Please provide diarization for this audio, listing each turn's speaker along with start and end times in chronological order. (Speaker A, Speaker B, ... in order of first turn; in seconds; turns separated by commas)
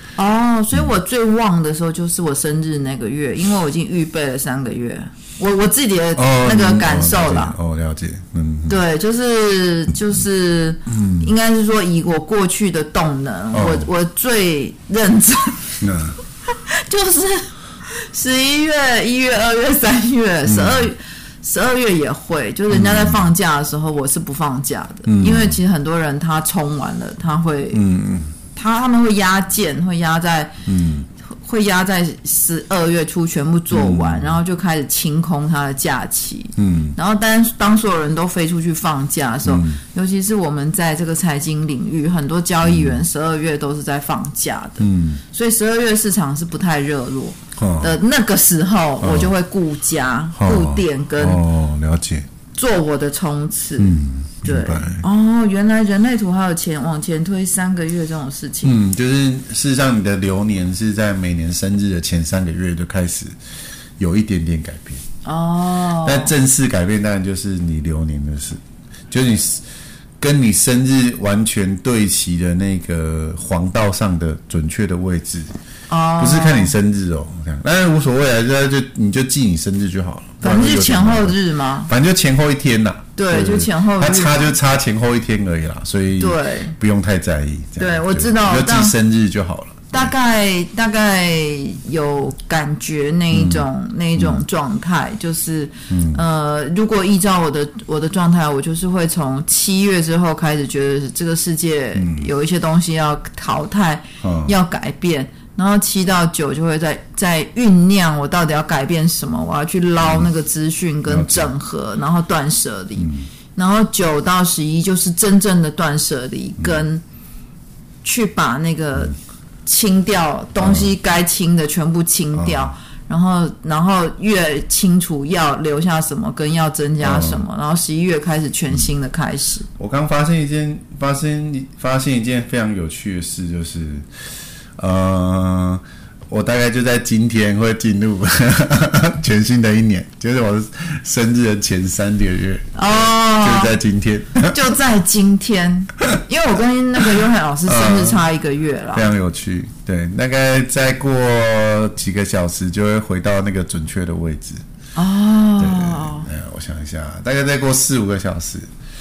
Speaker A: 0.2-7.6, Speaker B: 6.2-8.8, Speaker A: 8.7-15.8, Speaker B: 10.9-11.3, Speaker B: 13.5-13.9, Speaker B: 15.8-16.2, Speaker A: 16.5-27.8, Speaker B: 20.5-20.9, Speaker B: 22.7-23.3, Speaker B: 25.1-25.6, Speaker B: 27.7-28.3, Speaker A: 28.6-30.6, Speaker B: 30.6-31.1, Speaker A: 31.4-51.4, Speaker B: 33.7-34.4, Speaker B: 36.6-37.0, Speaker B: 39.5-39.8, Speaker B: 42.6-43.0, Speaker B: 44.8-45.2, Speaker B: 47.6-48.0, Speaker B: 49.0-49.3, Speaker B: 50.4-52.3, Speaker A: 52.5-58.8, Speaker B: 53.8-55.0, Speaker B: 58.6-63.4, Speaker B: 64.0-65.0, Speaker A: 65.2-66.3, Speaker B: 66.0-69.7, Speaker B: 70.2-75.5, Speaker A: 75.9-76.7, Speaker B: 76.2-90.1, Speaker A: 80.4-81.9, Speaker A: 83.2-84.5, Speaker A: 86.2-86.8, Speaker A: 87.8-89.0, Speaker A: 89.9-117.0, Speaker B: 93.3-94.4, Speaker B: 95.9-96.2, Speaker B: 102.0-102.3, Speaker B: 104.2-104.5, Speaker B: 110.0-110.3, Speaker B: 111.1-111.5, Speaker B: 113.0-113.3, Speaker B: 116.6-116.8, Speaker A: 118.0-119.1, Speaker A: 119.7-129.7, Speaker B: 120.6-120.9, Speaker B: 122.3-122.7, Speaker B: 127.0-127.4, Speaker B: 129.8-134.1, Speaker B: 134.8-144.6, Speaker A: 142.8-143.7, Speaker A: 144.5-149.1, Speaker B: 147.7-148.2, Speaker B: 148.9-154.6, Speaker A: 155.0-156.3, Speaker B: 155.6-158.7